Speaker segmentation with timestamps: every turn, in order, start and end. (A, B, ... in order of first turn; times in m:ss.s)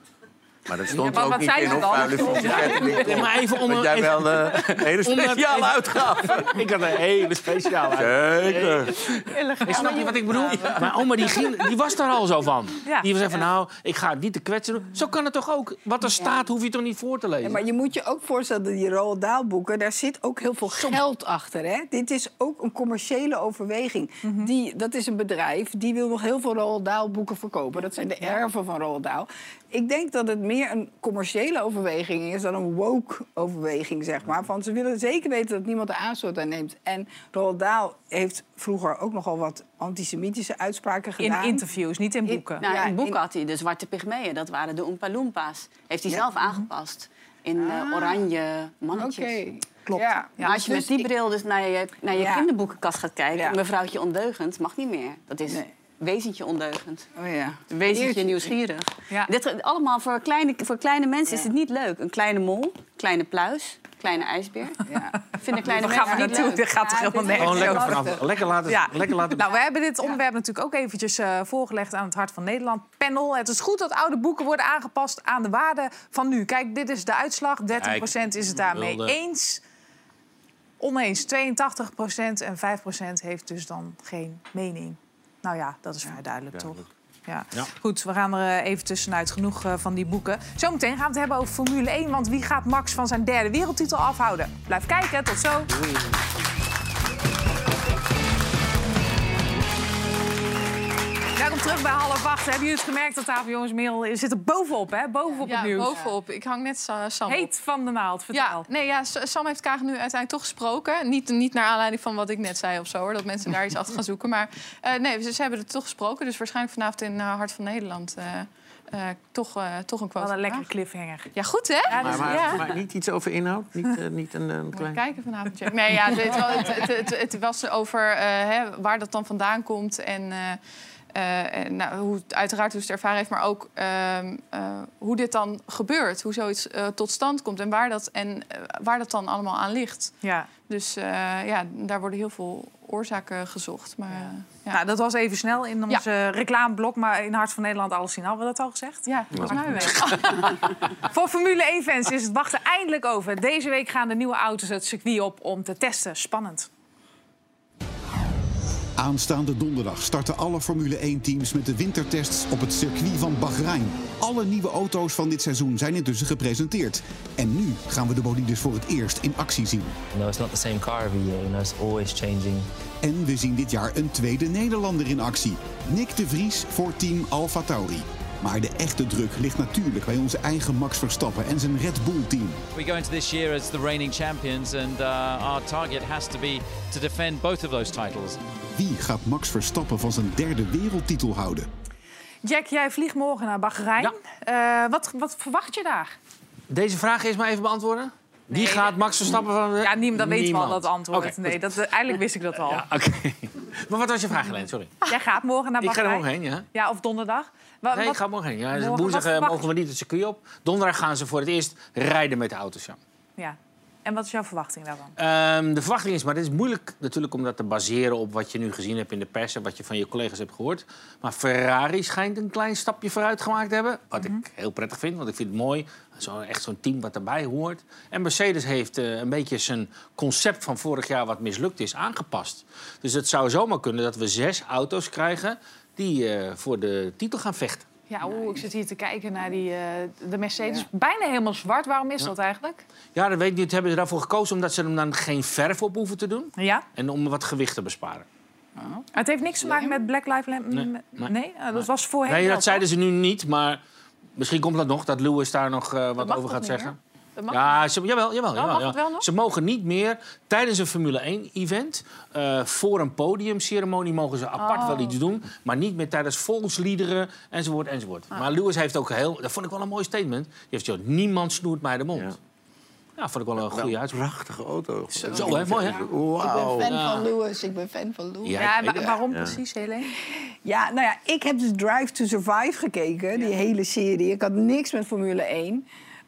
0:00.7-0:06.6 A
0:00.9-0:17.6 B
0:01.0-0:03.1 C
0:07.9-0:08.9 A
0:09.2-0:11.7 D
0:17.4-0:41.6 E
0:24.2-0:24.5 C
0:41.2-0:42.6 C
0:42.3-0:43.2 E
0:42.6-0:49.4 D
0:47.6-0:48.2 E
0:48.9-0:51.1 E
0:49.9-0:50.6 C
0:50.4-0:57.1 D
0:52.1-0:52.4 E
0:57.2-0:58.5 E
0:57.7-1:07.8 D
1:04.9-1:08.3 E
1:05.6-1:08.0 C
1:07.4-1:09.5 B
1:08.7-1:19.6 C
1:17.8-1:18.1 B
1:18.7-1:19.2 B
1:20.8-1:35.7 C
1:26.5-1:26.8 A
1:41.4-1:45.9 C
1:45.4-1:47.5 F
1:47.3-1:48.6 C
1:48.3-2:00.7 F
2:00.2-2:01.3 C
2:01.3-2:02.6 F
2:01.9-2:02.6 C
2:02.0-2:05.0 A
2:04.7-2:10.6 F
2:11.1-2:20.2 F
2:20.2-2:20.5 C
2:20.7-2:24.8 F
2:24.2-2:36.7 C
2:29.1-2:30.5 F
2:39.0-2:50.0 G
2:50.1-2:52.7 H
2:53.0-3:02.6 G
3:02.7-3:08.4 I
3:08.7-3:11.7 G
3:12.4-3:16.2 C
3:16.7-3:21.6 B
3:18.5-3:19.0 C
3:19.8-3:22.8 C
3:22.6-3:25.0 B
3:25.1-3:29.7 C
3:25.8-3:26.6 B
3:27.9-3:33.0 B
3:33.4-3:35.1 C
3:35.2-3:57.8 B
3:58.1-4:02.8 C
3:58.3-3:58.6 E
4:03.1-4:08.2 B
4:06.6-4:06.8 C
4:08.8-4:09.0 E
4:09.1-4:12.8 C
4:10.7-4:13.8 B
4:14.4-4:16.9 B
4:16.2-4:17.8 F
4:17.5-4:32.3 B
4:18.5-4:19.3 F
4:24.6-4:25.1 F
4:33.2-4:34.2 B
4:33.6-4:36.9 A
4:35.2-4:38.6 E
4:35.3-4:36.0 B
4:36.8-4:37.3 B
4:38.4-4:39.2 B
4:38.6-4:40.1 C
4:39.3-4:39.6 A
4:40.6-4:45.8 E